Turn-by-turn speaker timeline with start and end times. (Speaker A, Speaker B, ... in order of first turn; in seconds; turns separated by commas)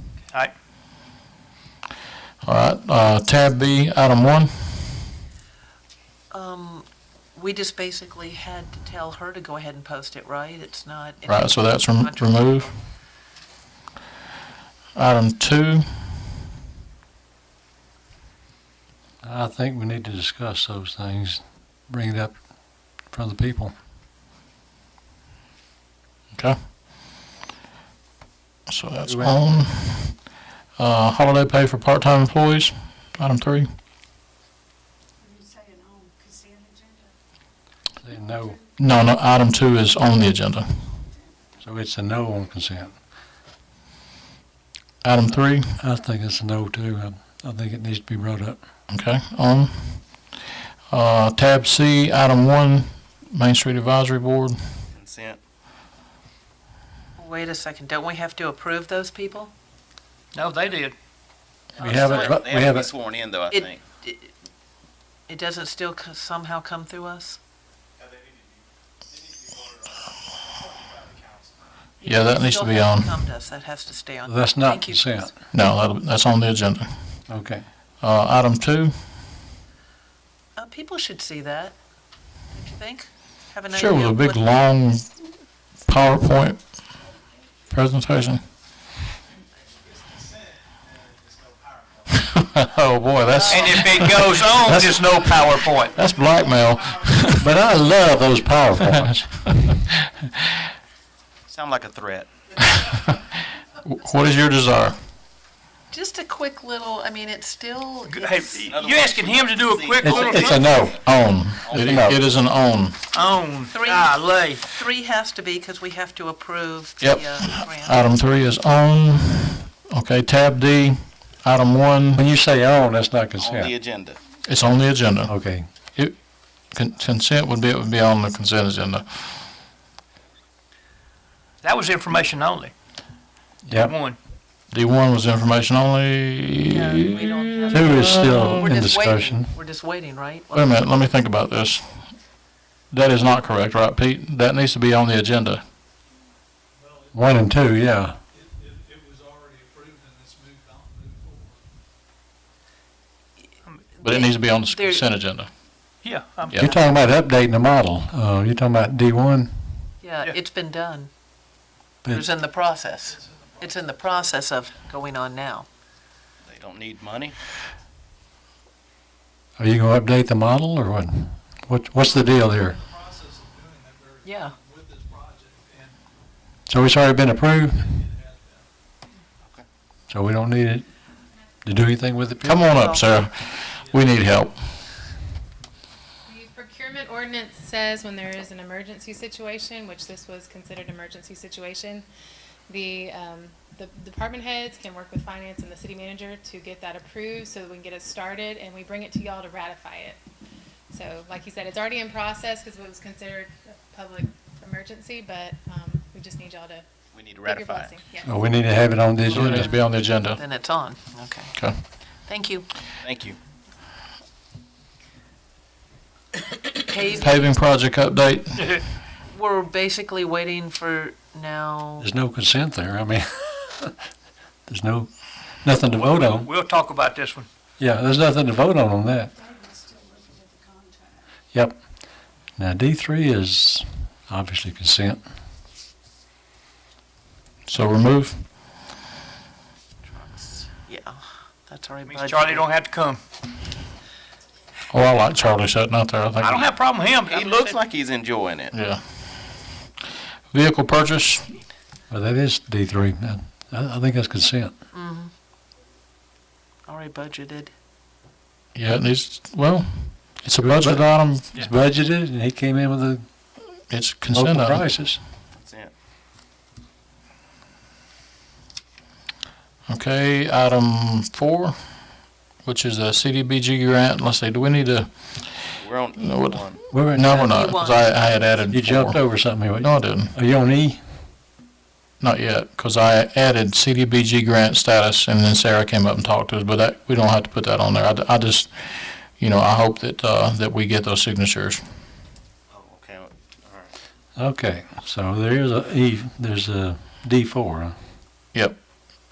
Speaker A: 2.4-5.0, Speaker B: 6.3-12.7, Speaker A: 11.3-12.7, Speaker A: 14.9-15.8, Speaker C: 19.2-22.4, Speaker C: 23.0-23.7, Speaker A: 28.7-33.7, Speaker C: 29.1-29.5, Speaker D: 35.3-36.9, Speaker C: 38.0-38.6, Speaker A: 38.8-40.8, Speaker C: 41.6-43.0, Speaker A: 45.0-45.8, Speaker C: 45.8-48.6, Speaker A: 48.9-50.3, Speaker A: 50.9-54.6, Speaker E: 54.9-55.4, Speaker B: 57.2-59.5, Speaker F: 60.3-61.0, Speaker B: 61.8-62.4, Speaker C: 61.8-62.9, Speaker E: 61.9-63.8, Speaker B: 63.5-64.3, Speaker B: 65.3-67.4, Speaker B: 72.0-75.3, Speaker A: 72.0-73.1, Speaker C: 74.3-75.3, Speaker A: 75.5-77.2, Speaker C: 77.3-77.7, Speaker A: 78.0-78.9, Speaker B: 80.6-81.8, Speaker B: 82.5-84.4, Speaker A: 83.7-85.1, Speaker A: 85.9-86.6, Speaker A: 87.7-88.4, Speaker A: 92.1-97.5, Speaker B: 93.3-93.8, Speaker F: 93.5-96.0, Speaker C: 97.4-99.2, Speaker A: 98.9-100.3, Speaker E: 101.5-102.3, Speaker A: 102.8-105.0, Speaker B: 105.9-108.6, Speaker F: 108.1-110.9, Speaker E: 108.7-112.0, Speaker C: 110.0-111.0, Speaker A: 111.0-113.0, Speaker C: 111.8-112.2, Speaker F: 113.1-114.6, Speaker B: 113.7-118.1, Speaker A: 117.0-122.2, Speaker C: 122.2-123.7, Speaker E: 123.4-124.2, Speaker A: 124.4-125.3, Speaker C: 125.3-125.7, Speaker A: 126.7-129.4, Speaker F: 131.6-132.7, Speaker C: 133.7-133.9, Speaker F: 133.8-134.2, Speaker A: 134.7-138.6, Speaker B: 136.7-140.8, Speaker C: 137.7-139.5, Speaker A: 140.5-142.2, Speaker A: 142.9-145.6, Speaker C: 147.1-148.2, Speaker G: 148.6-151.6, Speaker B: 154.0-155.1, Speaker A: 154.0-155.5, Speaker F: 156.0-156.6, Speaker C: 156.6-159.5, Speaker B: 160.0-161.1, Speaker B: 162.1-165.7, Speaker G: 163.2-163.7, Speaker E: 166.4-167.4, Speaker C: 169.6-172.8, Speaker G: 172.9-176.0, Speaker B: 174.2-174.5, Speaker C: 176.7-177.9, Speaker G: 178.1-178.7, Speaker C: 180.1-180.9, Speaker C: 181.6-182.8, Speaker A: 182.4-184.6, Speaker B: 182.7-183.1, Speaker H: 186.3-192.1, Speaker H: 192.7-200.2, Speaker H: 200.9-206.9, Speaker E: 207.1-208.0, Speaker H: 207.4-208.5, Speaker C: 208.2-209.7, Speaker B: 209.3-211.7, Speaker A: 209.3-210.4, Speaker B: 212.2-212.7, Speaker E: 213.0-213.4, Speaker B: 216.8-217.5, Speaker A: 217.2-218.8, Speaker F: 218.6-218.8, Speaker B: 219.3-222.1, Speaker C: 222.0-224.0, Speaker C: 224.7-226.5, Speaker F: 226.3-227.5, Speaker C: 227.8-229.3, Speaker D: 229.5-231.1, Speaker C: 231.5-235.2, Speaker A: 237.7-238.4, Speaker E: 240.1-240.7, Speaker B: 240.9-242.7, Speaker F: 242.1-243.2, Speaker A: 244.9-246.7, Speaker F: 246.4-247.8, Speaker E: 247.2-248.7, Speaker A: 248.7-249.0, Speaker A: 250.5-251.5, Speaker C: 252.1-254.7, Speaker B: 254.9-255.3, Speaker B: 256.9-257.7, Speaker A: 258.8-261.4, Speaker C: 260.6-263.3, Speaker A: 263.9-264.9, Speaker C: 264.3-265.2, Speaker E: 265.5-265.9, Speaker A: 269.9-280.3, Speaker E: 275.8-276.8, Speaker C: 276.9-277.4, Speaker B: 277.3-278.2, Speaker C: 278.7-281.0, Speaker A: 282.2-291.8, Speaker E: 292.7-293.9, Speaker C: 294.4-298.0